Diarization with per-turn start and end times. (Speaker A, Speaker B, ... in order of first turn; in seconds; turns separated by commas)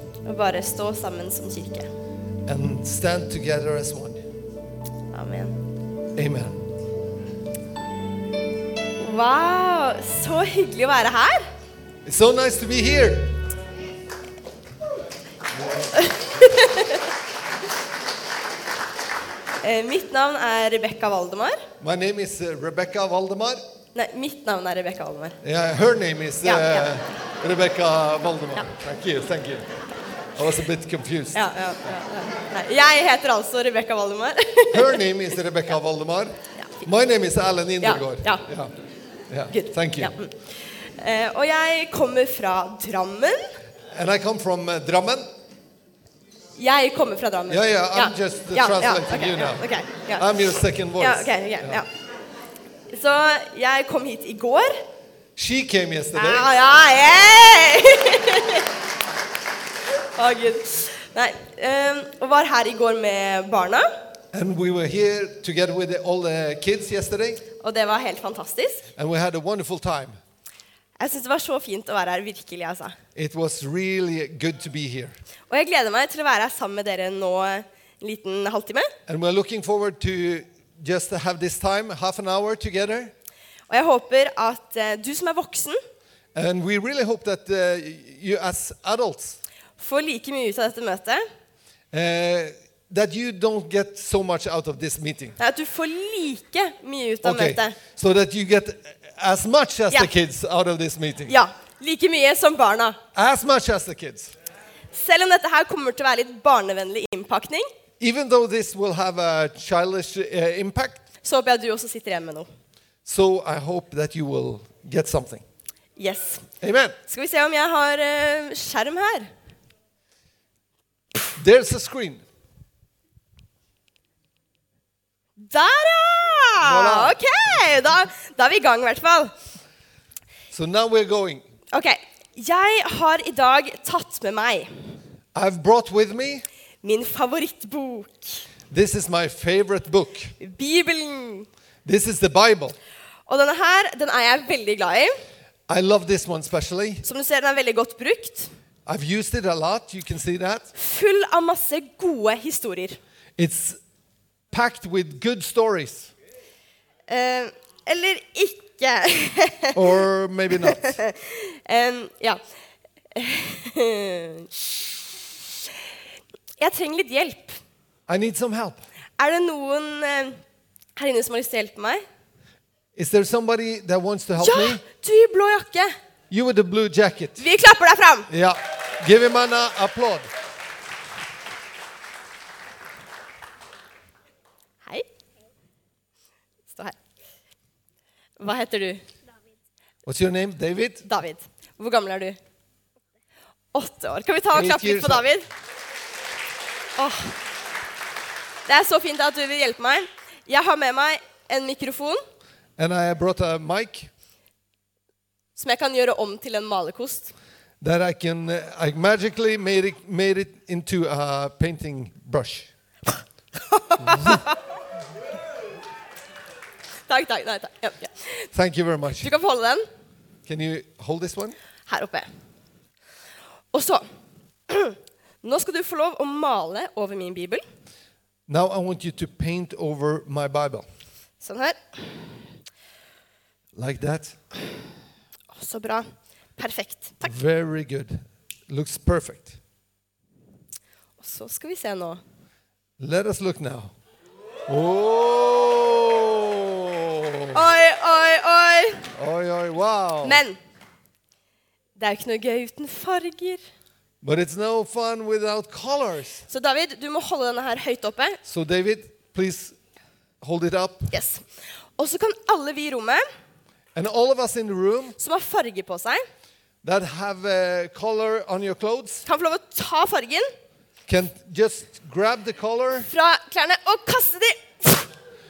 Speaker A: 0.2-1.9, Speaker B: 2.5-4.2, Speaker A: 5.1-5.6, Speaker B: 6.2-6.6, Speaker A: 9.0-11.5, Speaker B: 12.1-13.4, Speaker B: 15.6-15.9, Speaker A: 16.0-17.1, Speaker A: 19.6-21.7, Speaker B: 21.8-23.6, Speaker A: 23.9-25.4, Speaker B: 25.4-29.7, Speaker A: 26.4-26.9, Speaker B: 30.4-31.4, Speaker A: 31.3-35.0, Speaker B: 34.7-38.7, Speaker A: 36.6-36.8, Speaker A: 37.8-38.5, Speaker B: 39.3-40.1, Speaker A: 39.5-43.5, Speaker B: 43.9-45.3, Speaker A: 46.6-50.3, Speaker B: 47.5-51.8, Speaker A: 51.0-51.9, Speaker A: 52.9-54.9, Speaker B: 55.4-56.5, Speaker A: 56.1-58.7, Speaker A: 60.1-63.9, Speaker B: 64.3-67.4, Speaker A: 67.6-68.9, Speaker B: 69.0-70.2, Speaker A: 71.0-73.0, Speaker B: 73.2-75.2, Speaker A: 75.5-78.9, Speaker B: 79.1-83.1, Speaker A: 83.7-85.8, Speaker B: 86.3-89.4, Speaker A: 89.8-91.2, Speaker B: 91.9-95.4, Speaker A: 95.4-97.8, Speaker B: 97.2-101.3, Speaker A: 101.3-103.0, Speaker B: 103.1-104.3, Speaker A: 104.9-107.7, Speaker B: 108.0-111.0, Speaker A: 111.2-112.5, Speaker B: 113.0-115.5, Speaker A: 116.0-116.5, Speaker B: 116.6-117.0, Speaker A: 117.1-119.3, Speaker B: 121.4-122.2, Speaker A: 125.4-129.3, Speaker B: 126.6-127.2, Speaker B: 130.5-131.4, Speaker A: 131.7-134.7, Speaker B: 135.3-136.4, Speaker A: 136.8-138.5, Speaker B: 138.7-140.3, Speaker A: 140.4-141.5, Speaker B: 141.8-142.8, Speaker A: 143.3-145.2, Speaker B: 145.7-147.1, Speaker A: 147.0-148.5, Speaker B: 148.9-150.7, Speaker A: 150.8-153.0, Speaker B: 153.4-153.8, Speaker B: 154.5-156.1, Speaker A: 157.1-159.9, Speaker B: 159.7-161.0, Speaker A: 160.6-162.4, Speaker A: 163.2-164.9, Speaker A: 166.6-167.6, Speaker B: 168.1-168.8, Speaker A: 169.2-170.4, Speaker A: 171.0-172.1, Speaker B: 172.9-174.8, Speaker A: 174.4-175.9, Speaker B: 176.3-177.4, Speaker A: 177.4-178.3, Speaker B: 178.3-180.3, Speaker A: 186.7-187.0, Speaker A: 188.4-189.0, Speaker B: 190.1-191.1, Speaker A: 191.1-192.4, Speaker A: 193.7-195.5, Speaker B: 194.5-195.3, Speaker A: 197.0-197.4, Speaker A: 198.7-202.2, Speaker B: 202.8-204.1, Speaker A: 205.6-207.3, Speaker B: 207.8-212.7, Speaker A: 213.7-214.6, Speaker B: 214.0-214.4, Speaker A: 217.1-218.5, Speaker B: 218.5-219.3, Speaker A: 219.2-219.9, Speaker B: 220.5-221.6, Speaker A: 221.9-222.3, Speaker A: 223.7-224.1, Speaker A: 224.7-227.6, Speaker B: 228.5-230.9, Speaker A: 231.4-232.4, Speaker B: 233.7-234.4, Speaker A: 235.5-237.3, Speaker B: 237.2-239.6, Speaker A: 241.2-242.2, Speaker B: 243.0-243.9, Speaker B: 244.7-247.7, Speaker A: 247.5-249.1, Speaker B: 249.2-250.4, Speaker A: 250.2-250.6, Speaker A: 252.0-253.6, Speaker B: 254.2-256.5, Speaker A: 256.5-258.4, Speaker B: 258.4-259.8, Speaker B: 260.4-261.1, Speaker A: 261.1-261.4, Speaker A: 262.0-263.2, Speaker B: 263.9-265.2, Speaker A: 265.2-266.2, Speaker B: 266.8-269.3, Speaker A: 269.3-270.5, Speaker B: 271.1-273.1, Speaker A: 273.0-275.1